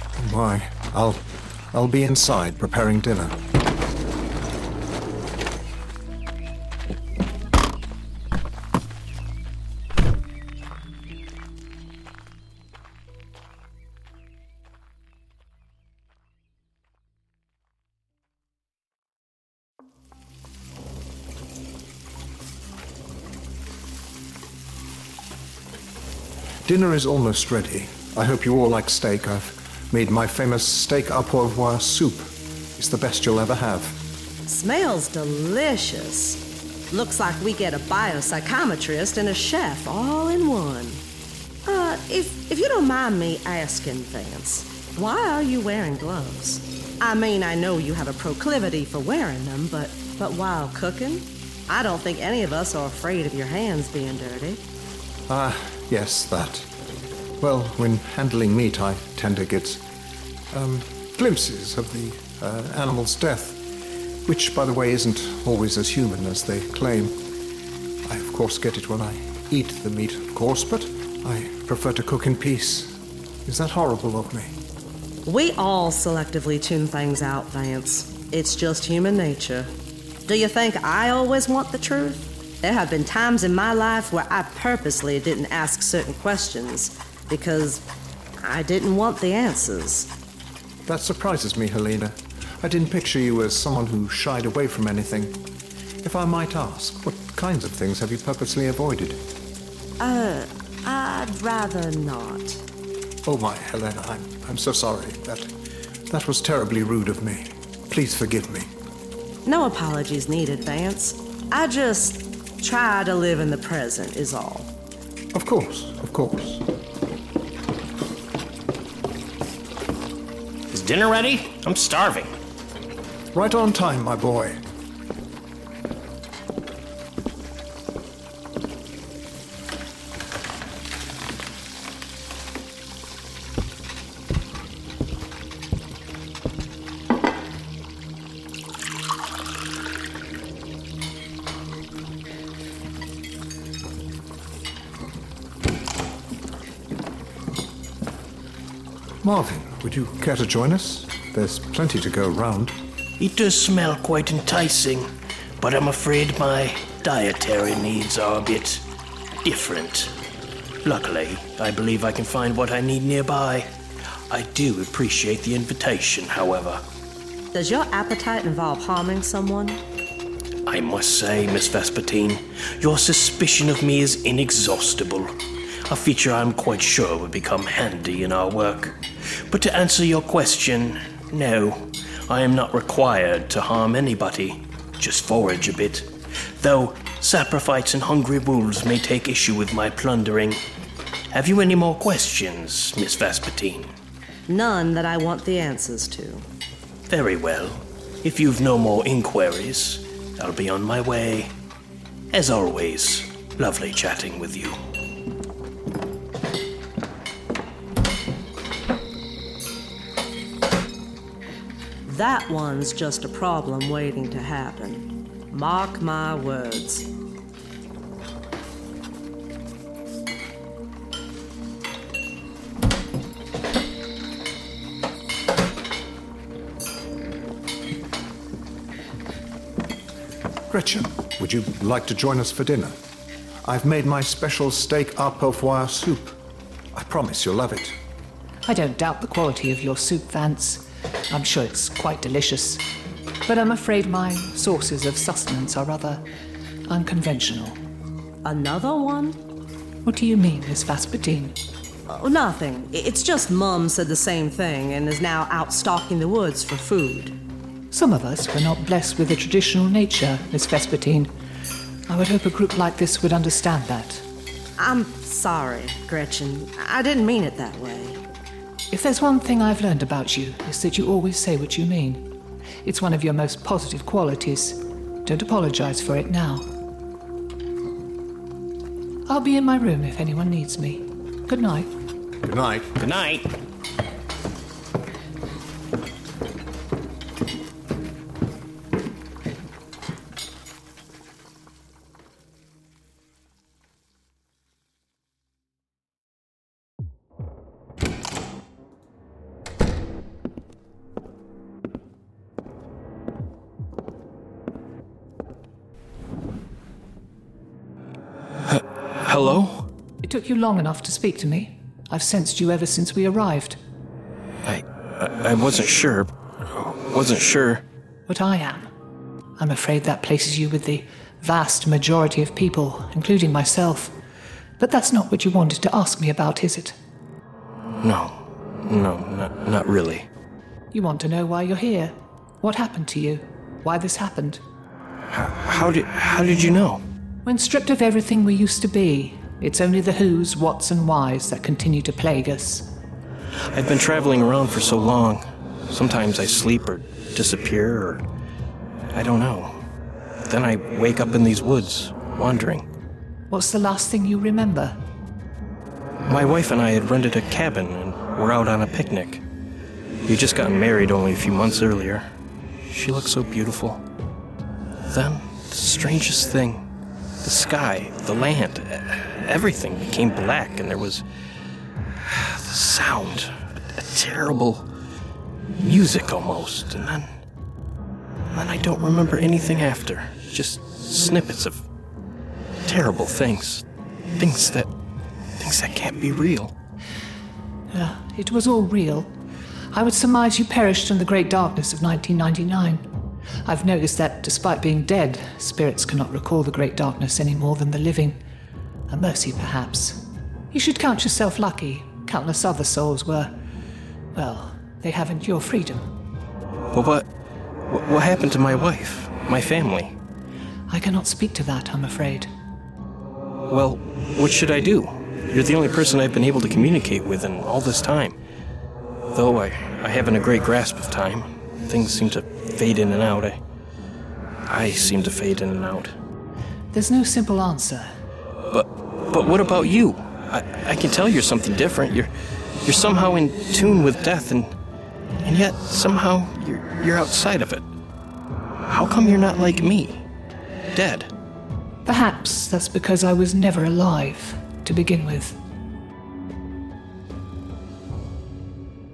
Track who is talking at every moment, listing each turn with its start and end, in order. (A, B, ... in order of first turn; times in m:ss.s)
0:00.2-0:03.4 A
0:26.6-0:34.0 A
0:34.5-0:41.0 B
0:41.6-0:54.6 B
0:55.3-0:56.7 A
0:57.4-0:59.8 A
1:00.5-1:03.6 A
1:04.3-1:07.1 A
1:08.1-1:14.6 A
1:15.2-1:19.7 B
1:20.3-1:27.8 B
1:28.4-1:30.1 B
1:30.9-1:35.4 A
1:36.0-1:39.2 A
1:40.0-1:42.6 B
1:43.2-1:45.5 A
1:46.1-1:48.7 A
1:49.4-1:54.7 B
1:55.3-1:56.6 A
2:00.7-2:02.3 C
2:03.3-2:04.6 A
2:29.2-2:32.8 A
2:33.2-2:38.8 C
2:39.4-2:40.1 C
2:40.8-2:43.7 C
2:44.3-2:46.8 C
2:47.5-2:49.8 B
2:50.6-2:55.3 C
2:55.9-3:10.6 C
3:11.3-3:13.9 C
3:14.5-3:16.4 B
3:17.1-3:21.5 C
3:22.3-3:24.8 C
3:32.1-3:37.1 B
3:50.7-3:53.0 A
3:53.6-3:56.4 A
3:56.9-3:58.0 A
3:58.6-4:02.8 D
4:03.4-4:06.2 D
4:06.9-4:07.8 D
4:08.4-4:09.4 B
4:10.0-4:11.6 D
4:12.1-4:17.4 B
4:17.9-4:21.3 D
4:22.1-4:24.2 D
4:24.8-4:28.2 B
4:28.9-4:32.3 D
4:32.8-4:36.7 D
4:39.3-4:41.9 D
4:42.4-4:42.9 A
4:43.0-4:43.5 C
5:08.7-5:09.9 C
5:10.2-5:13.8 D
5:14.6-5:17.8 C
5:18.3-5:18.9 D
5:19.6-5:24.1 D
5:24.8-5:27.0 D
5:28.0-5:30.3 C
5:30.9-5:34.6 D
5:35.3-5:37.0 C
5:37.4-5:42.9 D
5:43.7-5:48.2 C
5:49.1-5:49.8 C
5:50.4-5:52.9 C
5:53.5-5:55.0 D
5:56.3-5:59.4 C
6:00.2-6:02.3 C
6:02.9-6:04.0 C
6:05.1-6:06.9 C
6:07.4-6:11.2 C
6:12.2-6:14.9 C
6:15.8-6:17.3 C
6:18.5-6:21.9 C
6:22.9-6:23.8 C
6:24.4-6:24.9 C
6:25.6-6:26.7 C
6:27.9-6:29.3 D
6:29.9-6:33.0 D
6:33.6-6:38.4 D
6:39.1-6:43.5 D
6:44.3-6:46.1 D
6:46.9-6:47.3 C
6:47.9-6:50.2 C
6:50.9-6:52.5 D
6:53.7-6:58.4 C
6:59.3-7:03.6 C
7:04.7-7:06.1 C
7:06.9-7:08.1 D
7:08.7-7:12.3 C
7:12.8-7:14.8 C
7:15.4-7:17.8 C
7:18.9-7:20.3 C
7:20.9-7:21.3 C
7:22.0-7:25.6 D